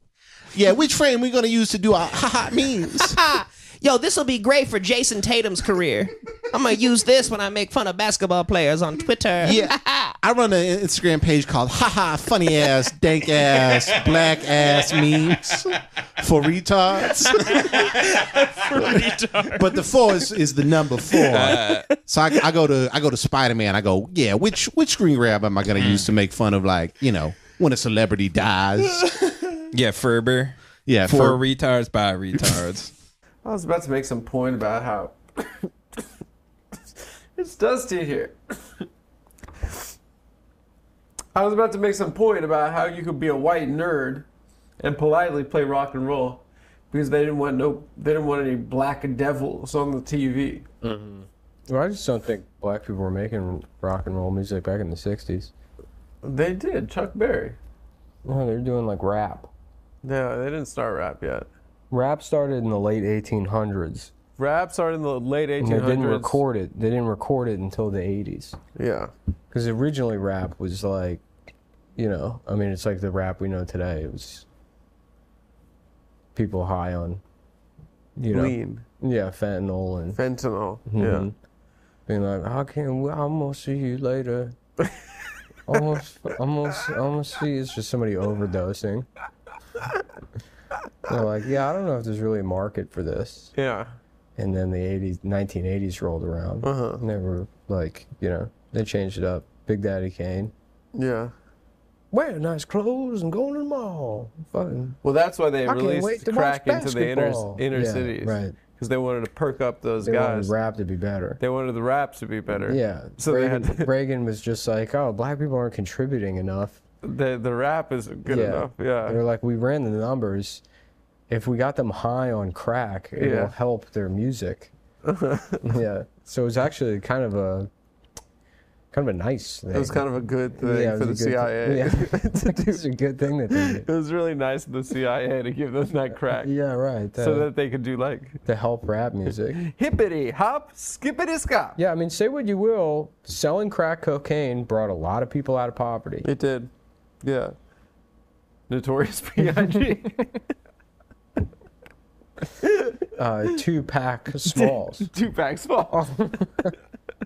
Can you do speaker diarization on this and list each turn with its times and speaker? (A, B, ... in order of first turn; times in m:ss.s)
0:00.5-0:03.2 A
0:02.8-0:10.1 B
0:09.4-0:17.6 A
0:17.3-0:19.5 C
0:17.3-0:19.7 B
0:19.5-0:29.1 A
0:21.2-0:21.9 C
0:21.7-0:22.0 B
0:25.8-0:26.1 C
0:29.7-0:32.9 C
0:30.9-0:31.4 A
0:33.4-0:35.7 D
0:37.4-0:38.4 D
0:41.3-0:44.3 D
0:44.8-0:50.6 D
0:50.8-0:55.5 E
0:56.2-0:57.6 D
0:58.2-0:59.5 E
1:00.0-1:01.5 D
1:01.9-1:04.1 E
1:04.4-1:06.4 D
1:05.6-1:08.6 E
1:08.8-1:09.1 D
1:09.5-1:11.2 E
1:12.0-1:14.4 E
1:16.3-1:17.2 E
1:18.2-1:20.2 E
1:18.3-1:18.8 D
1:20.1-1:21.3 D
1:20.8-1:21.3 E
1:22.1-1:24.5 E
1:25.7-1:29.1 E
1:31.1-1:33.5 E
1:33.6-1:33.9 D
1:34.4-1:40.5 E
1:36.6-1:37.0 D
1:40.9-1:41.3 D
1:42.1-1:45.0 E
1:45.0-1:50.5 D
1:45.6-1:48.6 E
1:50.0-1:51.4 E
1:51.4-1:53.9 D
1:52.5-1:56.8 E
1:57.0-1:59.2 D
1:58.2-2:00.6 E
2:01.3-2:04.7 E
2:03.2-2:03.5 D
2:05.0-2:05.7 D
2:05.6-2:07.7 E
2:08.9-2:13.9 E
2:09.7-2:12.8 D
2:13.5-2:16.5 D
2:16.3-2:17.5 E
2:17.2-2:18.4 D
2:18.4-2:19.6 E
2:19.6-2:21.8 D
2:21.8-2:26.3 E
2:26.2-2:26.7 D
2:27.2-2:27.5 D
2:28.7-2:30.4 D
2:32.6-2:33.1 D
2:33.2-2:35.1 E
2:34.4-2:36.3 D
2:35.9-2:36.7 E